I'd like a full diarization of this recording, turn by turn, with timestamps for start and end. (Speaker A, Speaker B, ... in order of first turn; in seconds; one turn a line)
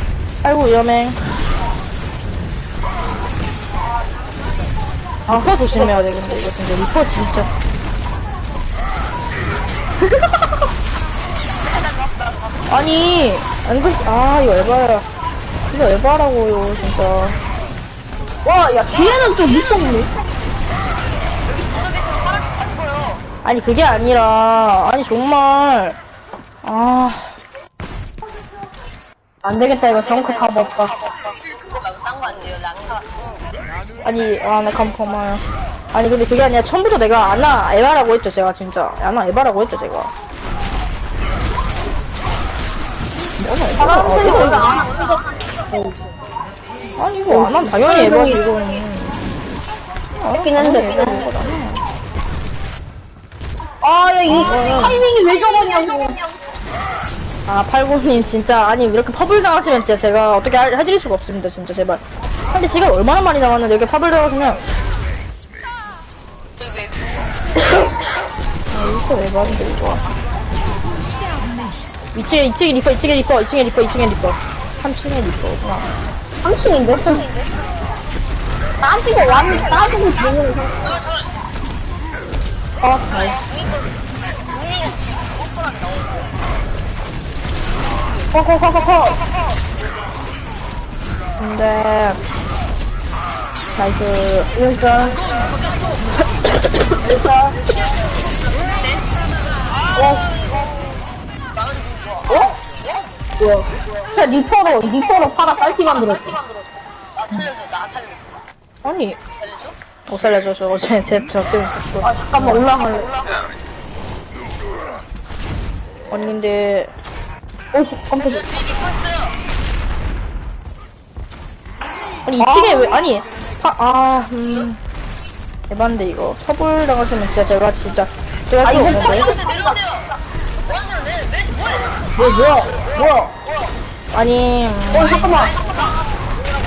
Speaker A: 0.4-1.2
Speaker A: 5.3-7.5
Speaker A: 12.7-15.1
Speaker A: 15.7-17.4
Speaker B: 18.4-20.1
Speaker C: 21.5-23.2
Speaker A: 23.4-26.0
Speaker A: 26.6-27.4
Speaker B: 29.4-30.9
Speaker C: 31.3-33.0
Speaker A: 34.0-40.1
Speaker A: 43.4-44.8
Speaker B: 43.8-46.1
Speaker A: 47.0-49.2
Speaker B: 47.3-48.4
Speaker A: 50.2-51.8
Speaker B: 50.4-51.3
Speaker B: 53.8-56.3
Speaker A: 54.3-55.0
Speaker A: 57.5-64.6
Speaker A: 68.7-70.1
Speaker A: 72.1-75.9
Speaker B: 76.4-77.3
Speaker A: 76.9-77.3
Speaker B: 78.8-81.0
Speaker A: 82.8-83.3
Speaker C: 83.1-83.9
Speaker C: 84.5-86.3
Speaker B: 88.3-89.2
Speaker A: 91.4-92.2
Speaker A: 93.8-94.5
Speaker B: 94.5-95.2
Speaker B: 97.0-97.6
Speaker C: 97.7-99.0
Speaker B: 100.0-100.4
Speaker C: 100.5-101.0
Speaker C: 101.5-102.3
Speaker B: 102.3-102.5
Speaker B: 103.4-106.4
Speaker C: 107.2-108.2
Speaker A: 108.8-109.2
Speaker A: 110.1-112.7
Speaker B: 112.0-113.1
Speaker A: 116.1-116.9
Speaker B: 117.7-118.5
Speaker C: 118.3-119.3
Speaker A: 122.3-124.8
Speaker B: 122.4-123.0
Speaker A: 125.7-129.4
Speaker B: 128.6-129.8
Speaker C: 128.8-129.8
Speaker C: 130.7-132.0
Speaker B: 132.2-133.3
Speaker A: 134.1-135.3
Speaker B: 134.9-135.6
Speaker C: 135.2-136.0